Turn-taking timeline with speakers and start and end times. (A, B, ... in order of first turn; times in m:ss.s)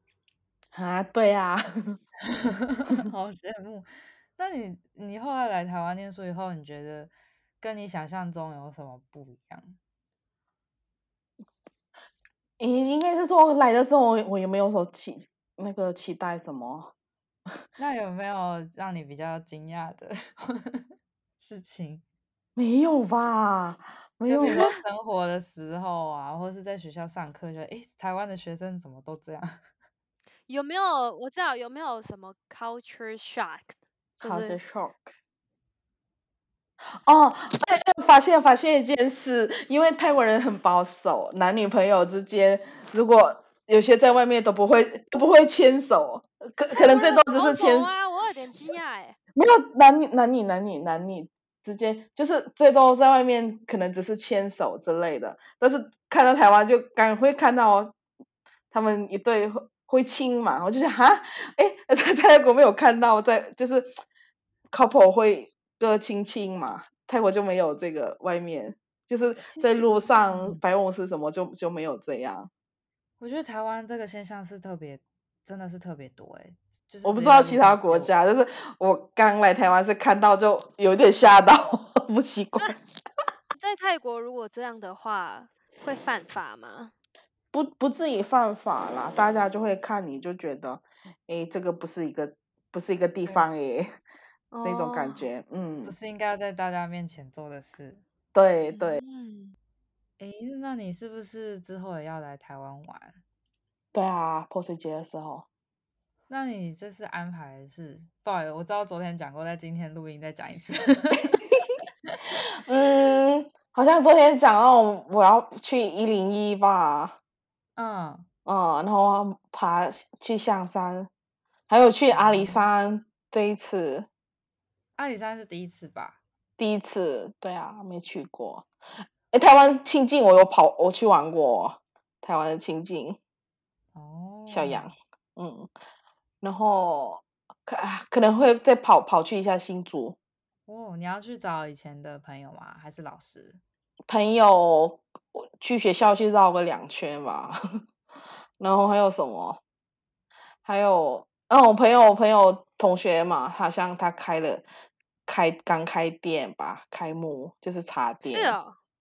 0:00.7-0:02.0 A
0:02.2-0:09.8 B
0:12.6-0:16.9 A
0:17.8-0:22.0 B
0:22.6-0:24.7 A
0:24.2-0:29.6 B
0:24.4-0:24.8 C
0:30.5-0:34.6 C
0:34.2-0:35.1 A
0:37.0-0:47.9 A
0:46.7-0:49.2 C
0:49.4-0:58.0 A
0:58.7-1:03.9 A
1:04.7-1:12.5 A
1:09.5-1:10.6 B
1:13.2-1:18.1 B
1:17.0-1:22.8 A
1:23.5-1:26.9 C
1:27.5-1:33.9 A
1:34.5-1:35.3 C
1:34.6-1:36.0 A
1:35.8-1:38.0 B
1:38.4-1:39.0 A
1:38.7-1:39.6 C
1:40.2-1:43.2 B
1:43.9-1:45.5 A
1:46.3-1:51.4 B
1:52.6-1:57.2 A
1:57.8-1:58.3 B
1:58.5-2:01.1 A
2:01.7-2:04.1 A
2:02.1-2:02.6 B
2:05.0-2:06.2 B
2:06.6-2:08.7 A
2:09.3-2:13.2 A
2:13.9-2:14.9 B
2:14.5-2:15.7 A
2:16.4-2:20.2 A
2:20.7-2:23.6 B
2:24.1-2:27.6 A
2:28.6-2:29.6 A
2:30.6-2:34.6 A
2:35.3-2:38.6 A
2:38.2-2:38.8 C